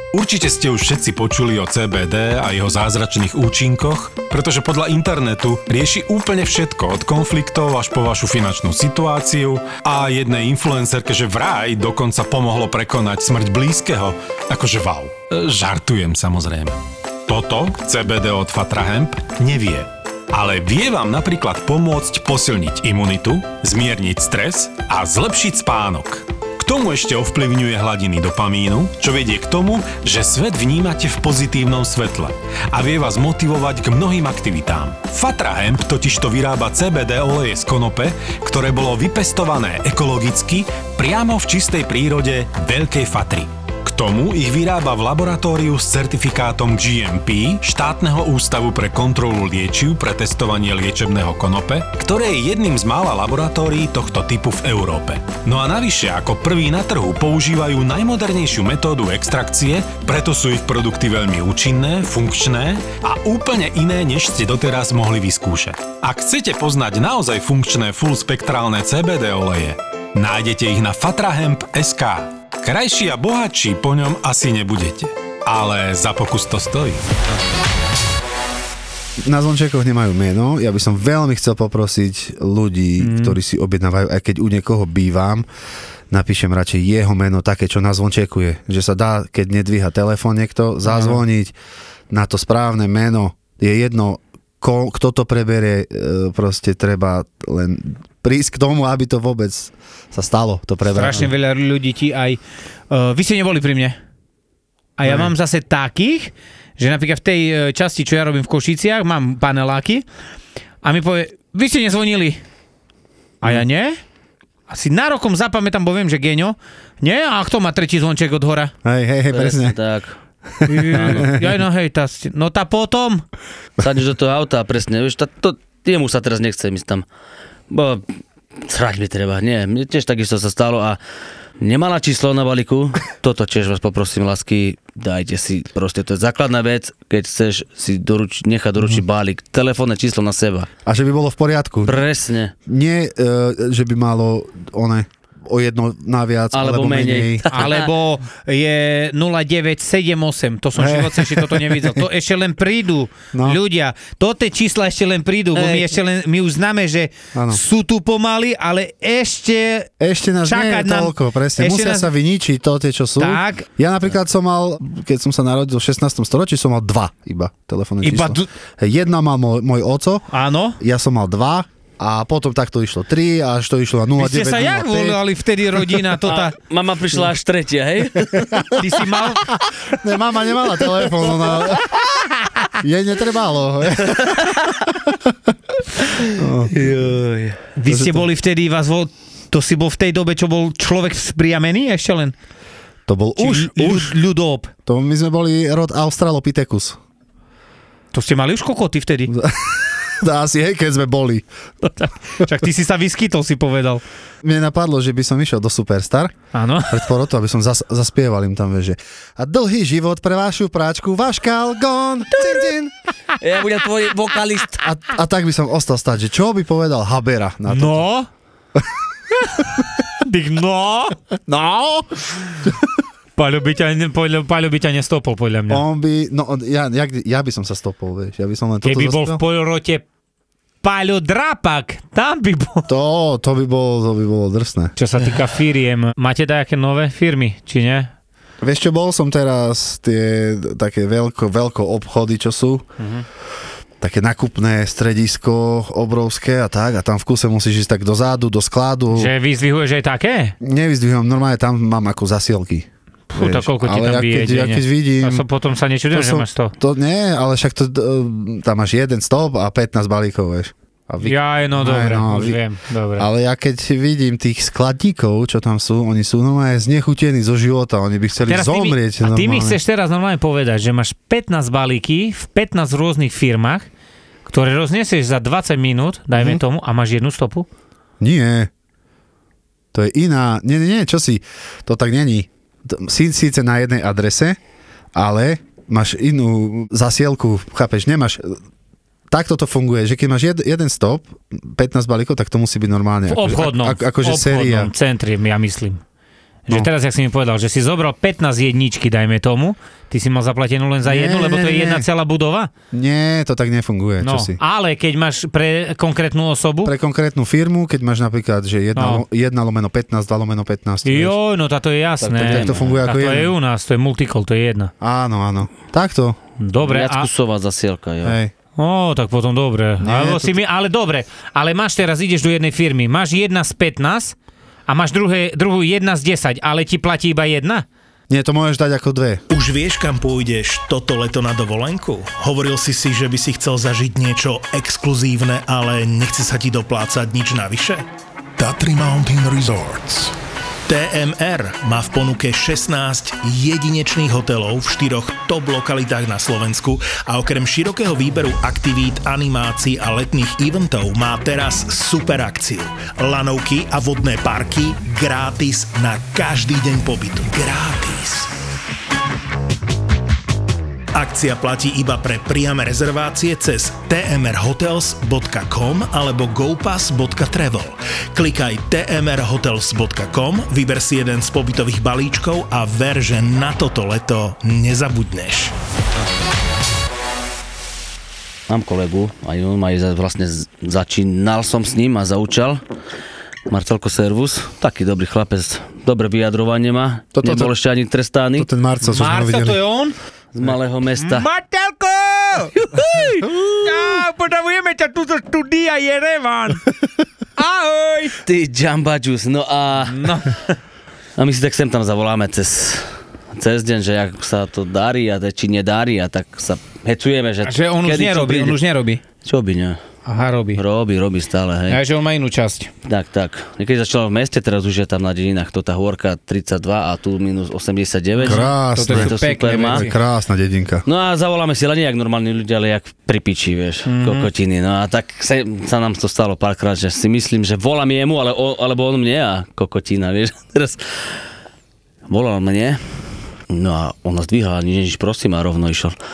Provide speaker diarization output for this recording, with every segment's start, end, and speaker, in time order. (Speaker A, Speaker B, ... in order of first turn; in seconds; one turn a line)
Speaker A: 0.1-77.0
Speaker B: 79.2-85.5
Speaker C: 83.0-83.4
Speaker B: 86.1-91.5
Speaker C: 90.9-91.2
Speaker B: 92.1-101.3
Speaker C: 100.9-104.0
Speaker C: 105.0-110.0
Speaker B: 105.0-105.3
Speaker C: 110.8-112.4
Speaker C: 113.4-114.0
Speaker C: 114.7-118.7
Speaker B: 118.8-119.8
Speaker D: 119.3-120.1
Speaker B: 120.6-121.5
Speaker C: 120.7-123.2
Speaker D: 120.9-121.3
Speaker D: 123.8-127.0
Speaker D: 127.7-128.1
Speaker D: 128.6-131.0
Speaker D: 131.6-140.7
Speaker B: 140.9-142.0
Speaker D: 141.9-142.5
Speaker B: 142.7-147.4
Speaker D: 146.5-147.9
Speaker C: 147.5-159.9
Speaker B: 150.8-152.0
Speaker B: 153.3-153.6
Speaker D: 155.6-155.9
Speaker B: 157.3-157.6
Speaker B: 160.0-170.3
Speaker C: 160.4-162.1
Speaker C: 163.2-163.7
Speaker C: 168.0-168.5
Speaker C: 170.3-170.8
Speaker B: 170.8-175.2
Speaker C: 174.2-176.6
Speaker D: 176.3-178.7
Speaker B: 178.4-178.7
Speaker C: 178.8-179.4
Speaker B: 179.9-181.9
Speaker B: 182.8-185.3
Speaker D: 184.4-184.7
Speaker B: 186.3-186.8
Speaker D: 186.7-187.6
Speaker C: 187.8-192.3
Speaker B: 187.9-188.2
Speaker B: 193.1-194.1
Speaker C: 193.4-194.7
Speaker B: 194.9-197.0
Speaker C: 198.1-199.3
Speaker B: 199.3-201.5
Speaker C: 201.9-204.0
Speaker B: 204.4-206.3
Speaker C: 206.5-207.0
Speaker B: 206.9-212.9
Speaker D: 213.4-214.9
Speaker B: 214.8-218.1
Speaker C: 217.7-218.3
Speaker C: 220.2-221.2
Speaker B: 221.5-222.8
Speaker C: 223.4-225.8
Speaker B: 225.7-229.4
Speaker C: 228.8-230.1
Speaker C: 230.8-232.9
Speaker B: 232.9-234.9
Speaker C: 235.0-238.1
Speaker B: 238.6-242.9
Speaker C: 243.0-243.2
Speaker B: 244.0-249.3
Speaker C: 249.1-250.6
Speaker B: 250.6-255.4
Speaker C: 253.3-256.7
Speaker B: 256.1-262.6
Speaker C: 261.2-263.3
Speaker B: 263.2-269.8
Speaker C: 268.5-273.9
Speaker C: 274.5-277.7
Speaker B: 276.4-276.6
Speaker B: 278.2-278.7
Speaker B: 279.9-284.6
Speaker B: 285.1-288.6
Speaker B: 289.3-294.9
Speaker C: 293.3-296.0
Speaker C: 296.7-302.7
Speaker B: 301.0-302.1
Speaker B: 302.9-304.6
Speaker C: 304.2-306.9
Speaker B: 306.8-311.4
Speaker C: 309.0-309.2
Speaker C: 311.1-314.9
Speaker D: 312.2-313.0
Speaker B: 312.4-313.5
Speaker B: 315.0-316.4
Speaker C: 316.6-317.3
Speaker D: 316.8-318.4
Speaker B: 318.2-318.5
Speaker C: 318.8-324.4
Speaker B: 320.0-320.6
Speaker C: 324.9-327.9
Speaker B: 328.3-329.4
Speaker E: 329.5-338.1
Speaker E: 338.6-340.4
Speaker E: 340.9-358.6
Speaker E: 361.1-375.7
Speaker D: 378.7-382.8
Speaker D: 383.7-388.7
Speaker B: 387.4-387.7
Speaker B: 388.6-389.8
Speaker C: 389.0-390.2
Speaker D: 390.5-391.5
Speaker C: 391.2-396.9
Speaker D: 392.7-393.8
Speaker C: 397.6-398.4
Speaker D: 398.4-400.3
Speaker C: 400.1-400.8
Speaker D: 401.4-408.8
Speaker C: 407.6-409.2
Speaker D: 409.4-410.0
Speaker C: 410.3-410.8
Speaker D: 410.8-412.0
Speaker C: 411.9-412.9
Speaker D: 413.1-420.1
Speaker C: 418.4-420.2
Speaker B: 418.4-421.1
Speaker D: 421.1-431.4
Speaker C: 424.1-424.5
Speaker D: 432.3-433.0
Speaker D: 433.7-436.1